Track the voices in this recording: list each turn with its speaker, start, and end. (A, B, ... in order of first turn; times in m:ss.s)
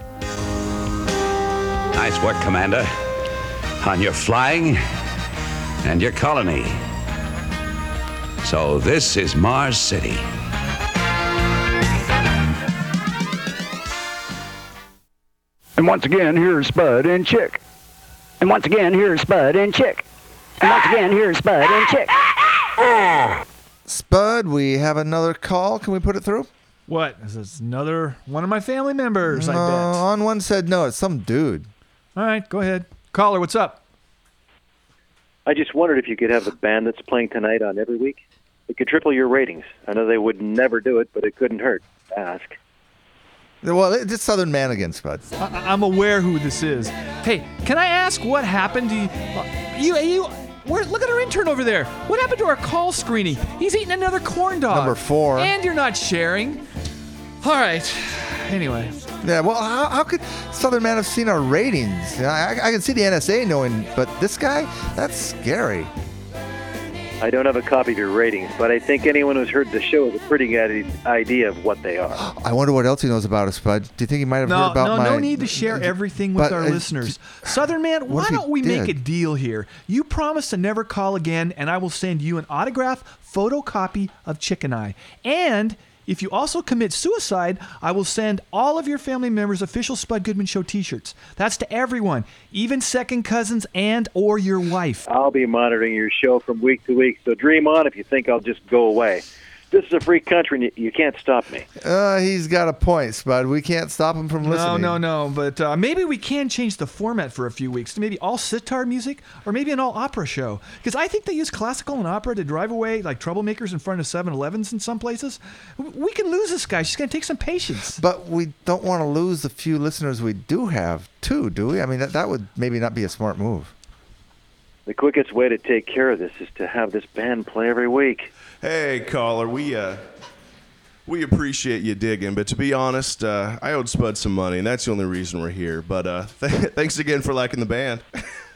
0:01.9-0:02.9 A
0:03.8-0:04.8 A
0:05.8-0:06.8 A
0:08.4-0:10.2 A
0:15.8-0:17.6 B
0:18.4-0:20.0 B
0:20.6-0:22.1 B
0:23.8-0:26.5 C
0:26.9-0:30.0 D
0:29.2-0:31.7 C
0:32.2-0:33.8 D
0:35.4-0:42.6 E
0:43.6-0:45.2 C
0:45.4-0:56.6 D
0:54.7-0:55.5 C
0:57.4-0:59.0 D
0:59.2-1:05.9 C
1:07.2-1:12.2 E
1:12.2-1:17.4 C
1:14.4-1:35.0 D
1:18.1-1:18.9 C
1:35.1-1:41.6 E
1:41.8-1:45.0 C
1:44.4-1:58.0 D
1:58.0-2:03.7 C
2:04.9-2:08.3 E
2:08.6-2:10.0 F
2:11.0-2:18.0 F